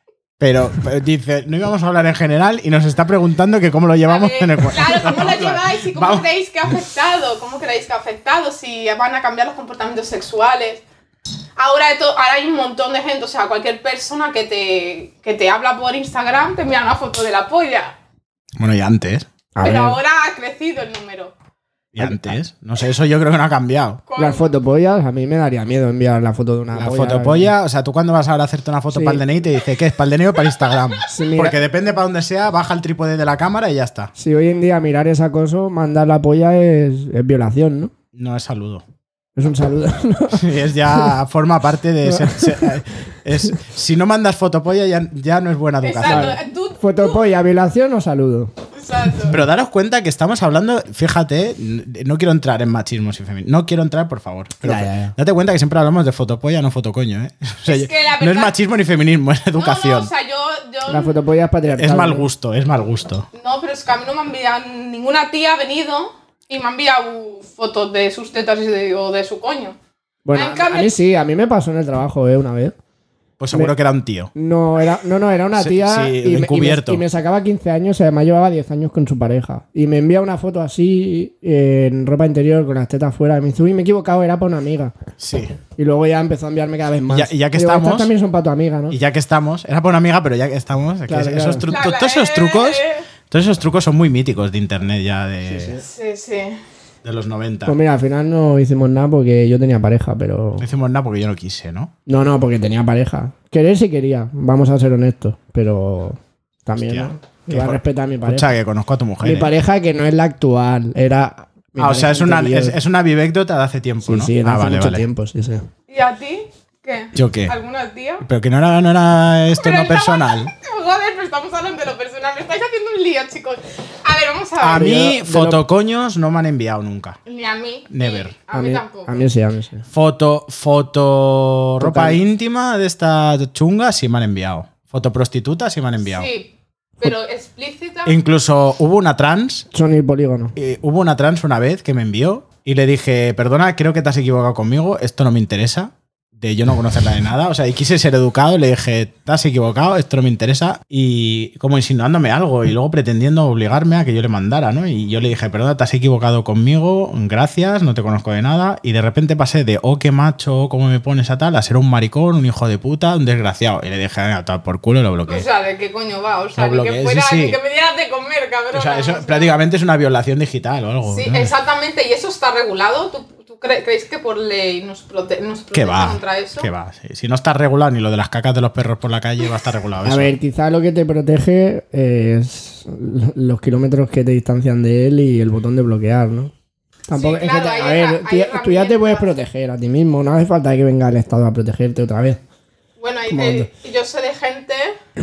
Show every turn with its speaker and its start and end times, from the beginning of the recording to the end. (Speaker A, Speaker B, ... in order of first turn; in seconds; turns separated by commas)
Speaker A: 0.4-6.2, Speaker B: 4.1-10.8, Speaker B: 11.6-18.0, Speaker A: 18.6-19.3, Speaker C: 19.6-20.0, Speaker B: 19.6-21.3, Speaker A: 21.9-24.0, Speaker C: 22.0-22.4, Speaker B: 24.1-24.5, Speaker C: 24.2-27.5, Speaker A: 26.8-34.1, Speaker C: 28.9-29.2, Speaker B: 30.4-31.2, Speaker C: 31.1-31.6, Speaker C: 34.2-37.9, Speaker A: 38.1-38.8, Speaker C: 39.4-41.1, Speaker A: 40.3-46.4, Speaker C: 42.0-42.9, Speaker B: 45.8-47.2, Speaker C: 46.0-48.5, Speaker B: 48.8-49.4, Speaker A: 49.3-60.1, Speaker C: 54.6-55.1, Speaker B: 57.7-58.6, Speaker B: 59.6-61.2, Speaker C: 60.9-62.3, Speaker A: 61.7-63.3, Speaker B: 63.3-69.8, Speaker C: 70.3-72.8, Speaker B: 70.3-70.9, Speaker A: 73.4-74.3, Speaker C: 74.3-84.9, Speaker A: 75.6-77.0, Speaker A: 85.2-85.6, Speaker C: 85.8-89.0, Speaker A: 87.1-88.1, Speaker A: 88.9-95.8, Speaker C: 91.1-91.7, Speaker B: 91.7-93.1, Speaker C: 95.4-95.8, Speaker B: 95.8-96.6, Speaker A: 97.0-97.8, Speaker C: 97.7-100.7, Speaker A: 100.6-101.9, Speaker C: 102.1-108.6, Speaker A: 106.8-109.5, Speaker C: 109.2-112.8, Speaker A: 111.8-115.0, Speaker C: 114.0-115.7, Speaker B: 115.9-118.2, Speaker A: 117.1-117.6, Speaker A: 118.2-120.5, Speaker B: 119.6-125.0, Speaker A: 124.6-127.2, Speaker C: 124.7-125.6, Speaker B: 127.3-129.2, Speaker A: 127.9-128.3, Speaker C: 128.5-129.8, Speaker A: 129.9-136.3, Speaker C: 131.8-132.2, Speaker B: 136.1-138.2, Speaker A: 138.1-139.7, Speaker C: 139.7-140.6, Speaker A: 140.6-165.4, Speaker B: 165.3-169.6, Speaker A: 166.6-167.6, Speaker A: 168.7-171.5, Speaker B: 171.1-176.7, Speaker A: 175.7-180.3, Speaker C: 180.1-186.5, Speaker C: 187.1-192.4, Speaker B: 187.1-189.3, Speaker B: 193.0-195.0, Speaker C: 193.3-193.7